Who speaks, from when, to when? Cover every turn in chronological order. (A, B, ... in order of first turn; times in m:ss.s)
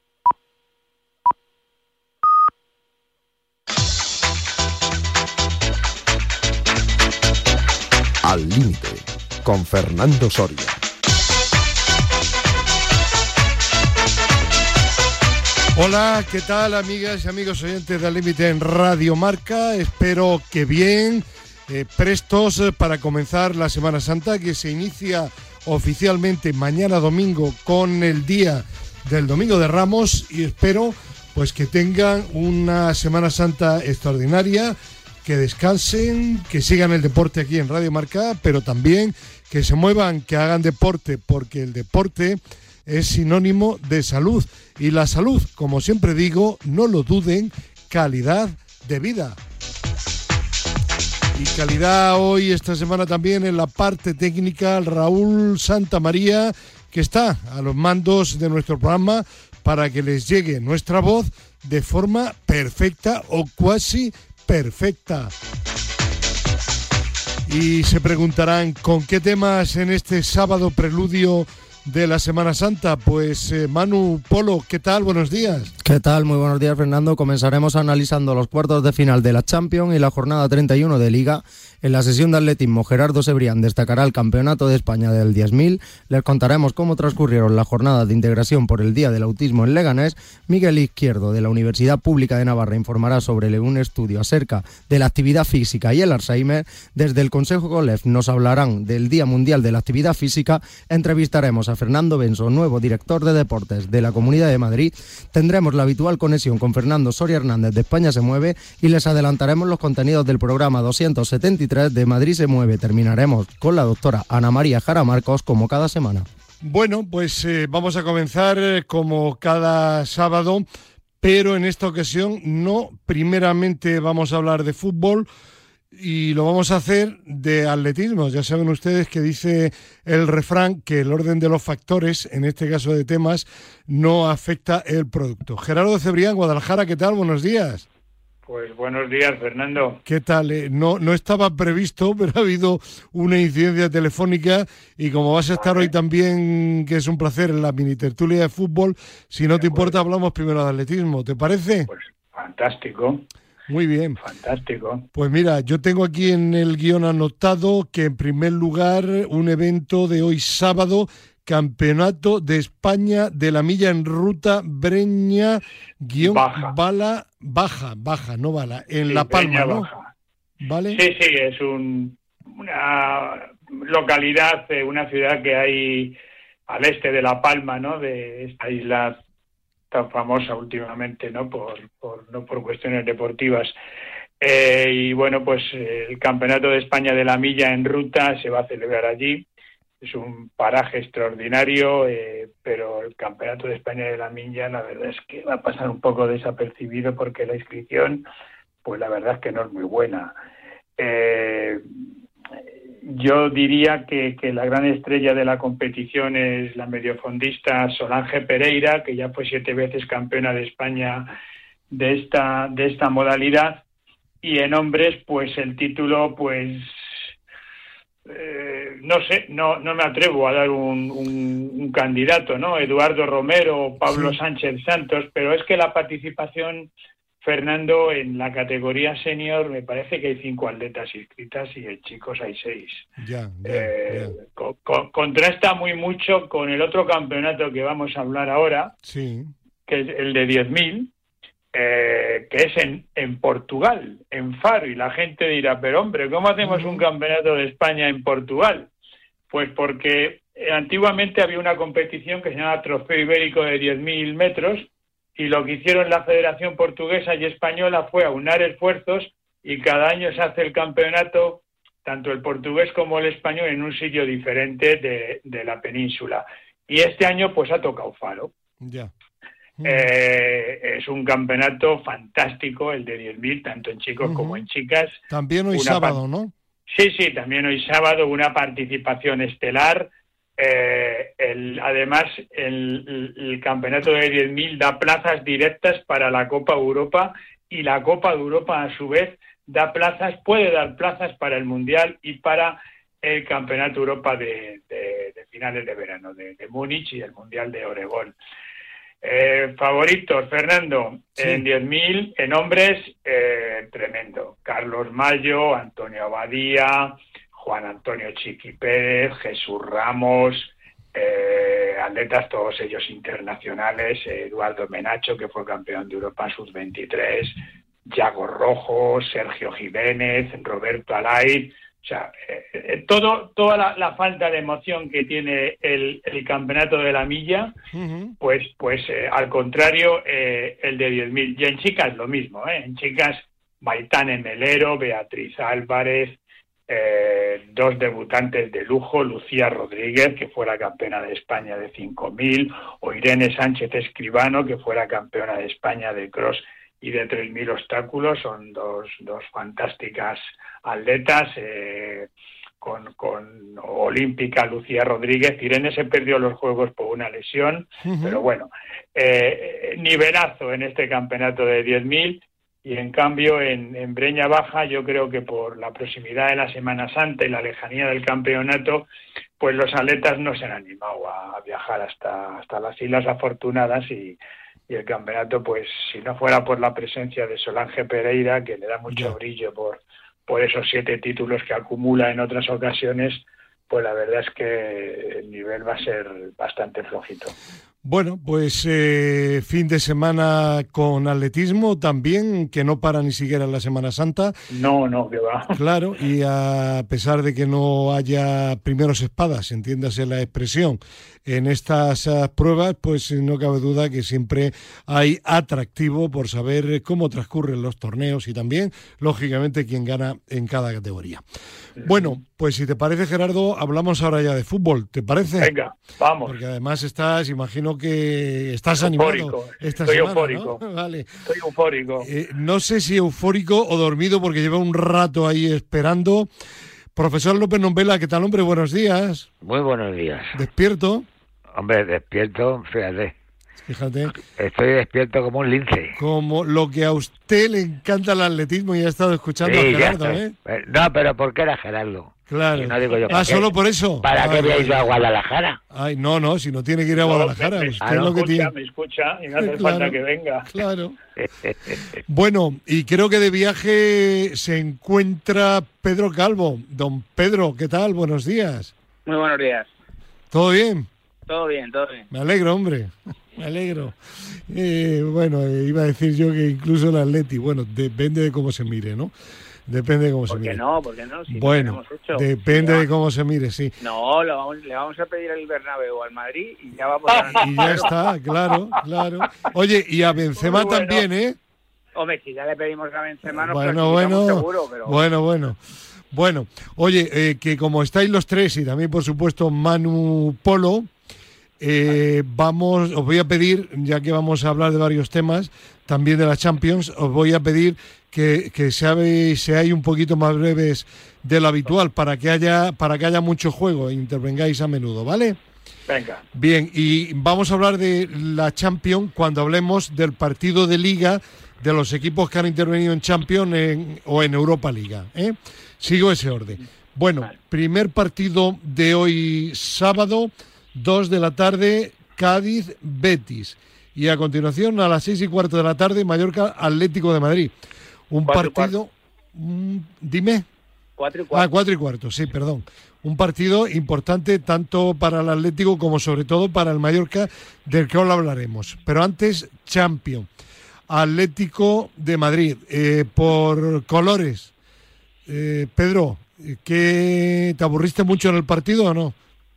0:08.2-0:10.8 A
0:15.8-0:49.4 B
0:51.4-1:05.3 B
1:07.5-1:15.7 B
1:15.8-1:56.3 C
1:56.6-2:00.6 B
2:01.2-2:05.3 B
2:05.9-2:17.9 B
2:18.5-2:20.0 D
2:20.1-2:31.9 B
2:25.6-2:25.9 D
2:29.5-2:30.0 D
2:31.9-2:33.2 D
2:33.7-2:34.2 B
2:34.2-2:35.1 D
2:35.2-2:49.9 B
2:46.2-2:46.7 D
2:49.1-2:50.1 D
2:50.6-2:51.0 B
2:50.9-2:56.2 D
2:56.7-2:59.2 D
2:59.9-3:03.8 D
3:04.4-3:09.4 D
3:10.0-3:18.2 D
3:18.8-3:20.3 D
3:21.0-3:21.8 D
3:23.0-3:31.3 D
3:31.9-3:33.8 D
3:34.4-3:36.9 D
3:38.3-3:46.9 D
3:44.1-3:44.4 B
3:47.4-3:53.0 D
3:53.2-3:54.3 B
3:53.6-3:58.9 D
3:59.0-3:59.5 B
3:59.9-4:01.1 D
4:01.7-4:08.9 D
4:06.6-4:07.0 B
4:09.5-4:28.5 D
4:28.8-4:29.1 B
4:29.8-4:30.1 B
4:29.8-4:36.2 D
4:34.2-4:34.6 B
4:35.3-4:36.5 B
4:36.9-4:58.4 D
4:59.2-5:27.7 D
5:01.4-5:01.7 B
5:27.9-5:28.4 B
5:28.4-5:52.3 D
5:52.8-6:09.1 D
5:58.0-5:58.4 B
6:09.6-6:27.6 D
6:19.1-6:19.4 B
6:28.0-6:34.5 B
6:34.7-6:35.8 D
6:35.8-6:51.4 B
6:52.0-6:52.4 D
6:52.0-6:55.7 B
6:55.6-6:56.6 D
6:56.4-7:01.3 B
6:59.0-7:00.8 D
7:01.5-7:02.3 D
7:02.2-7:06.5 B
7:07.2-7:09.5 B
7:09.6-7:10.6 E
7:10.5-7:11.3 B
7:11.7-7:13.4 E
7:13.8-7:14.4 B
7:14.4-7:16.2 E
7:16.2-7:20.5 B
7:19.6-7:23.7 E
7:22.5-7:25.1 B
7:24.2-7:25.8 E
7:25.9-7:28.7 B
7:27.2-7:30.7 D
7:28.0-7:28.4 E
7:29.6-7:31.2 B
7:31.4-7:32.2 E
7:32.3-7:38.9 B
7:39.3-7:39.9 F
7:40.5-7:41.1 B
7:41.5-7:42.3 F
7:42.3-7:44.2 B
7:44.7-7:49.3 B
7:49.9-7:50.8 B
7:50.5-7:53.1 F
7:51.5-7:53.9 B
7:54.0-7:58.1 F
7:57.5-7:58.1 D
7:57.5-8:01.6 B
8:00.6-8:01.2 D
8:02.2-8:05.2 F
8:03.5-8:05.8 B
8:06.3-8:11.1 B
8:11.8-8:25.6 B
8:26.1-8:26.4 D
8:26.6-8:47.7 B
8:48.3-8:50.6 B
8:48.4-8:48.9 F
8:51.2-8:51.7 F
8:51.5-9:00.5 B
9:01.1-9:04.7 B
9:05.5-9:09.4 B